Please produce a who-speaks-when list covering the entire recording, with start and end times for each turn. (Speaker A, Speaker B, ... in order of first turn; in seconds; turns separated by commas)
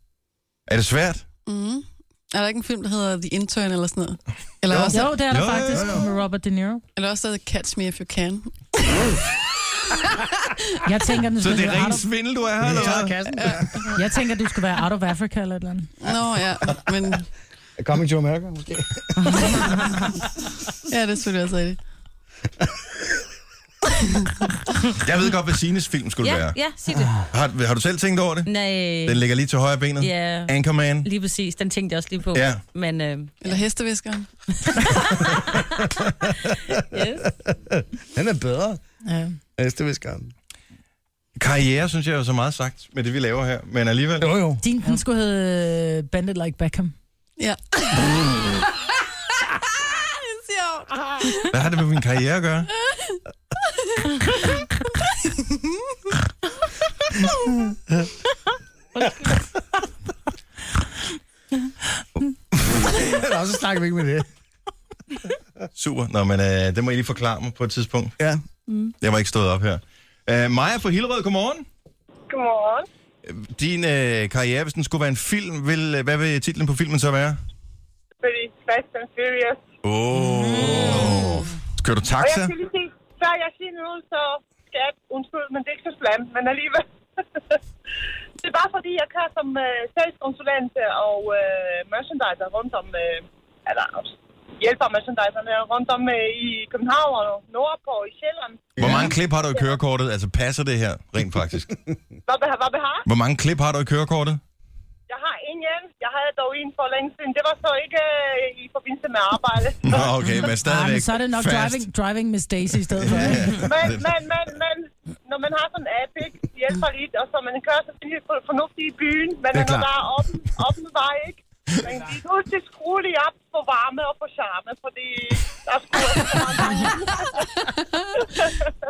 Speaker A: 0.7-1.2, Speaker B: 1.5-5.1, Speaker C: 4.7-5.0, Speaker D: 4.9-6.8, Speaker A: 5.3-6.0, Speaker C: 5.7-6.0, Speaker B: 7.0-9.0, Speaker D: 10.8-12.1, Speaker A: 11.4-13.5, Speaker C: 12.6-13.9, Speaker B: 12.8-13.8, Speaker D: 13.9-15.9, Speaker B: 16.0-17.3, Speaker C: 17.8-19.8, Speaker B: 20.9-21.8, Speaker A: 25.0-26.6, Speaker E: 26.2-27.2, Speaker A: 27.2-28.5, Speaker E: 28.5-29.2, Speaker A: 29.0-31.1, Speaker E: 30.0-33.5, Speaker A: 32.3-32.6, Speaker B: 33.4-34.3, Speaker E: 34.8-35.7, Speaker E: 36.9-37.3, Speaker C: 37.8-38.8, Speaker D: 39.0-39.4, Speaker C: 39.6-40.3, Speaker A: 41.4-44.3, Speaker C: 44.2-44.6, Speaker D: 44.6-46.9, Speaker B: 47.4-48.4, Speaker B: 49.8-51.5, Speaker A: 51.5-52.7, Speaker B: 52.9-53.2, Speaker B: 54.0-54.6, Speaker C: 62.6-64.3, Speaker A: 65.8-68.2, Speaker A: 69.0-71.7, Speaker F: 72.3-72.9, Speaker A: 73.2-77.4, Speaker F: 78.2-79.6, Speaker A: 79.8-82.5, Speaker D: 80.2-81.4, Speaker F: 82.2-86.9, Speaker F: 88.4-98.9, Speaker C: 98.8-99.2, Speaker A: 98.8-101.8, Speaker F: 102.3-103.1, Speaker A: 103.1-104.4, Speaker F: 105.1-110.1, Speaker A: 109.8-111.8, Speaker D: 110.4-113.6, Speaker A: 113.0-114.1, Speaker C: 113.1-113.5, Speaker F: 113.6-127.5, Speaker C: 119.5-119.9, Speaker B: 127.8-128.0, Speaker F: 128.2-128.7